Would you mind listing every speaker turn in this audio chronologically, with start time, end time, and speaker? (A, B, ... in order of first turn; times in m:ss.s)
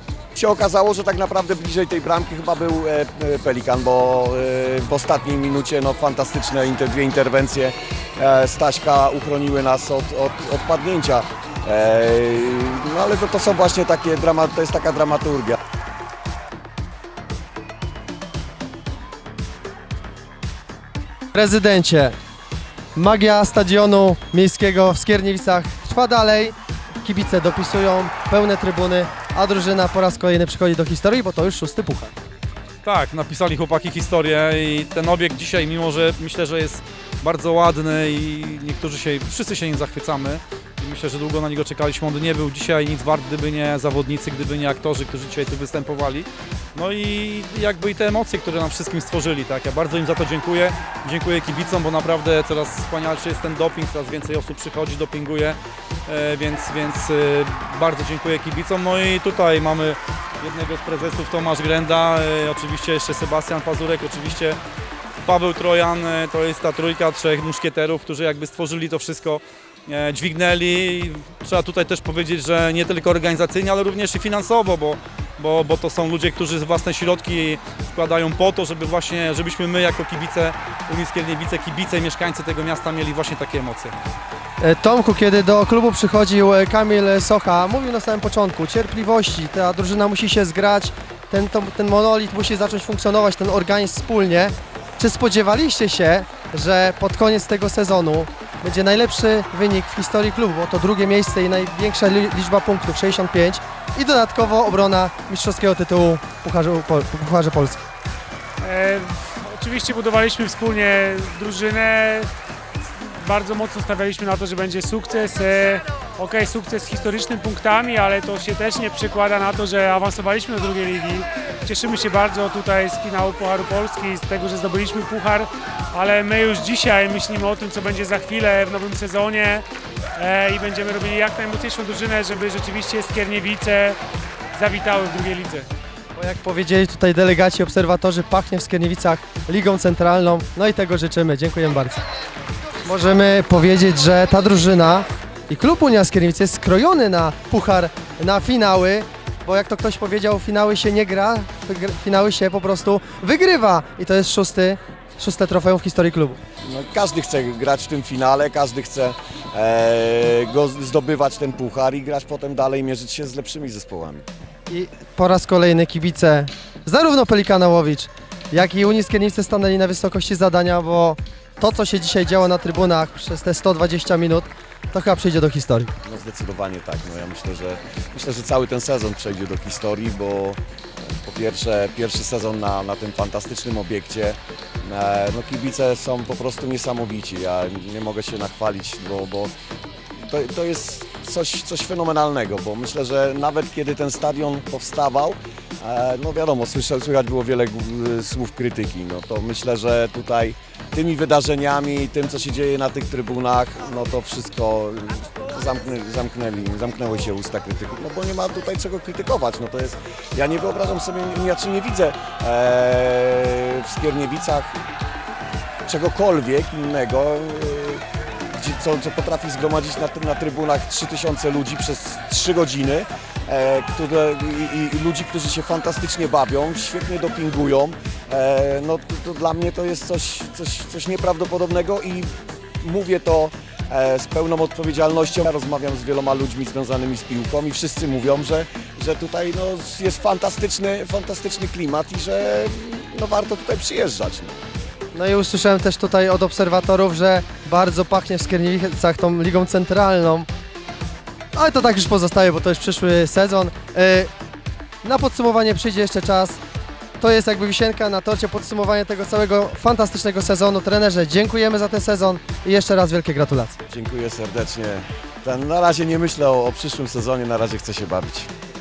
0:00.3-0:15.6 A
0:21.3-0:22.2 B
0:23.0-0:32.1 B
0:32.8-1:04.6 C
1:05.2-1:23.9 C
1:24.6-1:47.8 B
1:48.6-1:52.3 D
1:53.2-2:09.6 D
2:10.2-2:14.0 D
2:14.6-2:15.7 D
2:16.2-2:22.0 B
2:22.8-2:36.4 B
2:36.7-2:44.3 A
2:44.7-2:55.9 B
2:56.0-3:09.5 A
3:10.2-3:34.8 A
3:35.9-4:04.6 A
4:05.1-4:10.5 B
4:11.5-4:14.3 B
4:15.0-4:16.6 B
4:17.2-4:23.8 B
4:23.9-4:28.5 A